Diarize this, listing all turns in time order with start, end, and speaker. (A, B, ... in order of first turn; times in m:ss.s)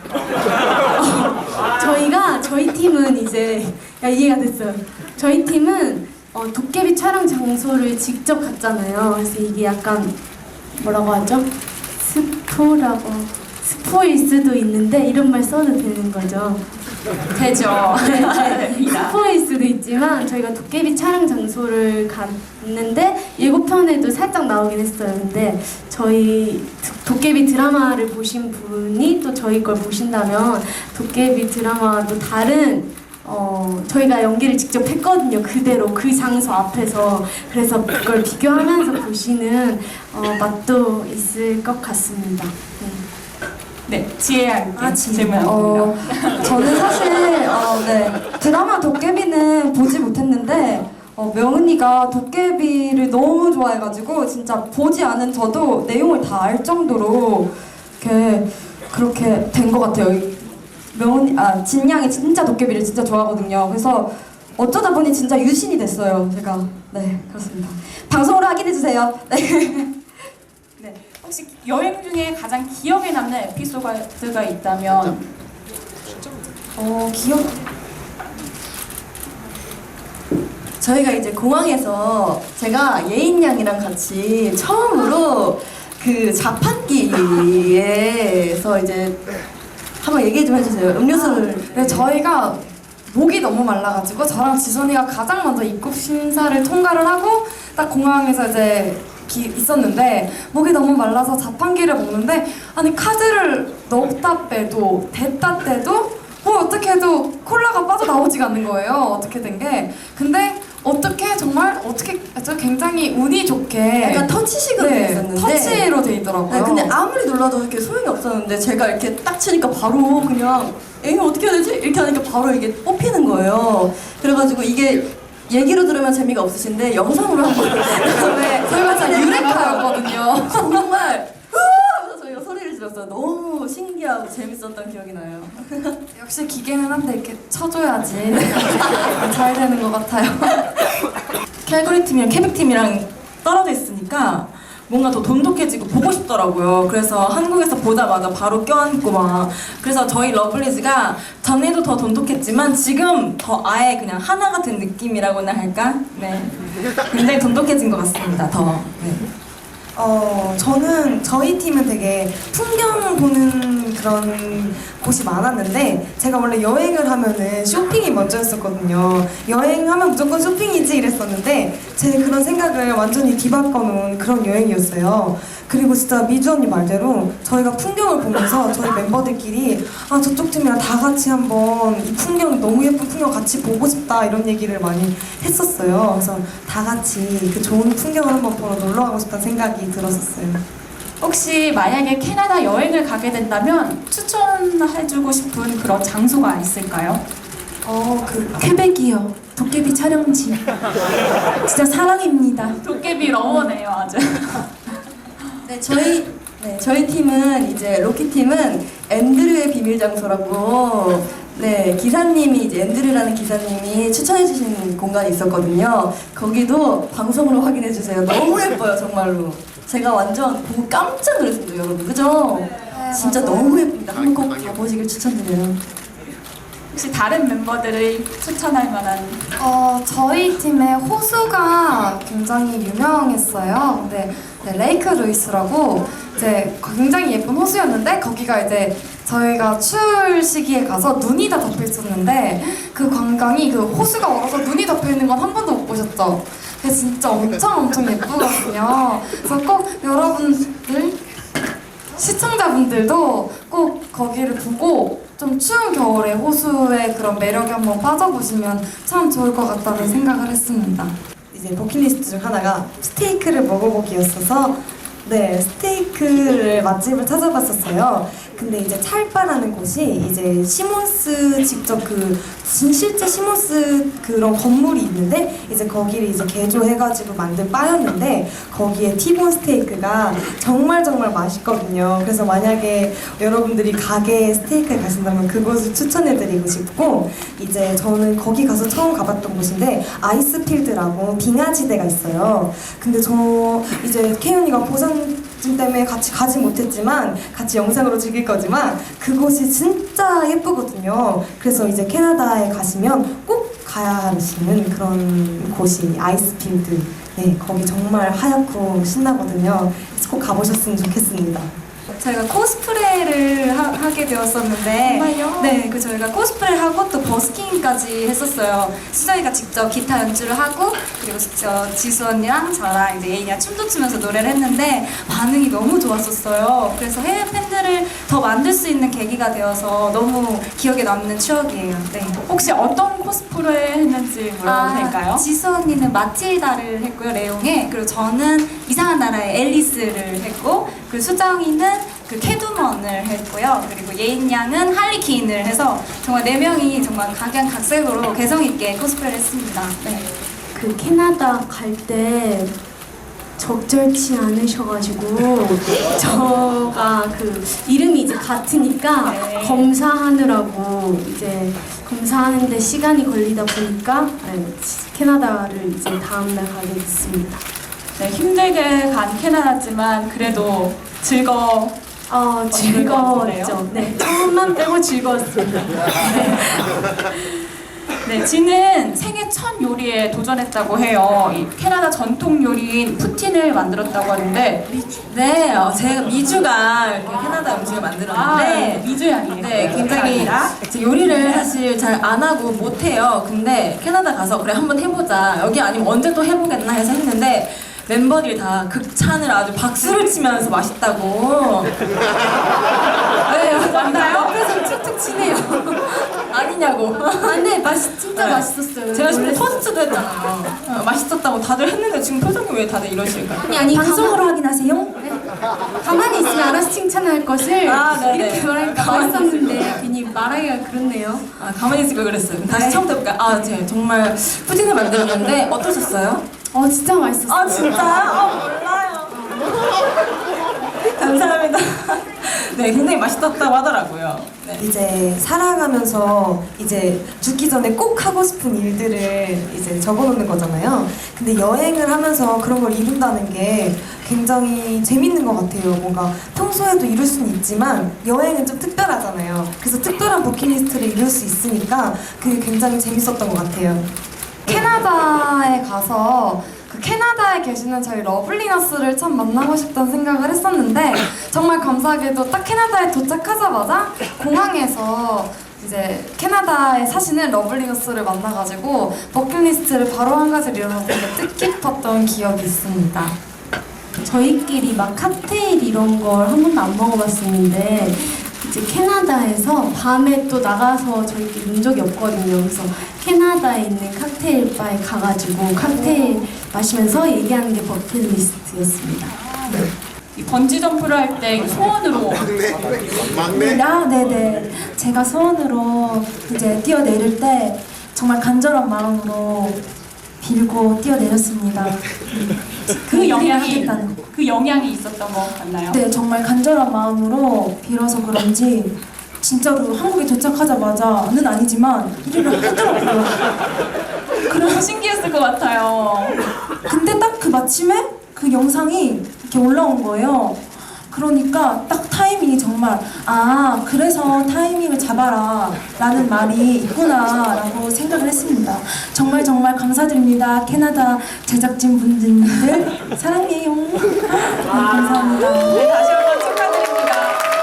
0:01.0-0:10.1 A
0:10.8-0:11.5 A
0:12.0-0:16.6 A
0:17.3-0:19.2 B
0:17.8-0:42.5 A
0:43.9-0:46.8 B
0:44.8-0:45.3 C
0:45.4-0:46.2 D
0:46.4-0:57.5 E
0:58.0-1:00.3 E
1:00.9-1:09.2 E
1:07.2-1:08.1 F
1:09.2-1:09.8 F
1:10.8-1:15.2 B
1:16.8-1:17.5 D
1:16.8-1:17.2 G
1:20.8-1:29.2 F
1:30.0-1:32.0 F
1:31.1-1:56.9 D
1:54.0-1:55.8 F
1:56.5-2:16.0 F
2:08.1-2:10.8 D
2:16.1-2:20.8 D
2:21.6-2:39.3 H
2:39.9-3:10.6 G
3:11.2-3:17.2 B
3:17.8-3:18.6 G
3:18.6-3:20.7 C
3:21.6-3:22.8 C
3:22.8-3:24.7 B
3:23.5-3:23.7 F
3:25.6-3:45.8 F
3:42.9-3:43.8 D
3:46.9-3:49.4 B
3:49.6-4:11.2 D
4:12.2-4:21.1 D
4:21.5-5:11.7 G
5:12.1-5:32.4 I
5:32.4-5:35.4 B
5:34.6-5:50.2 I
5:50.7-5:52.7 A
5:53.6-6:07.6 A
5:59.2-5:59.9 B
6:08.2-6:12.0 B
6:12.3-6:17.0 A
6:12.7-6:13.8 B
6:18.2-6:24.8 B
6:25.2-6:41.9 H
6:28.3-6:30.7 B
6:43.4-6:46.2 A
6:43.5-6:44.5 H
6:46.3-6:53.7 H
6:47.4-6:49.8 A
6:53.6-6:54.4 A
6:53.9-6:55.4 C
6:56.0-7:01.4 A
6:57.8-7:00.0 H
7:01.6-7:06.4 H
7:02.7-7:03.0 A
7:06.7-7:08.4 A
7:07.5-7:09.4 H
7:09.3-7:09.8 A
7:11.0-7:14.9 H
7:14.8-7:34.1 G
7:34.7-7:53.3 D
7:54.2-8:09.3 A
8:10.3-8:12.5 B
8:13.5-8:19.8 C
8:20.4-8:22.1 C
8:23.0-8:24.2 C
8:23.1-8:26.0 B
8:25.9-8:33.4 C
8:34.4-8:36.5 B
8:36.8-8:40.6 C
8:41.1-8:55.8 C
8:54.7-8:57.5 B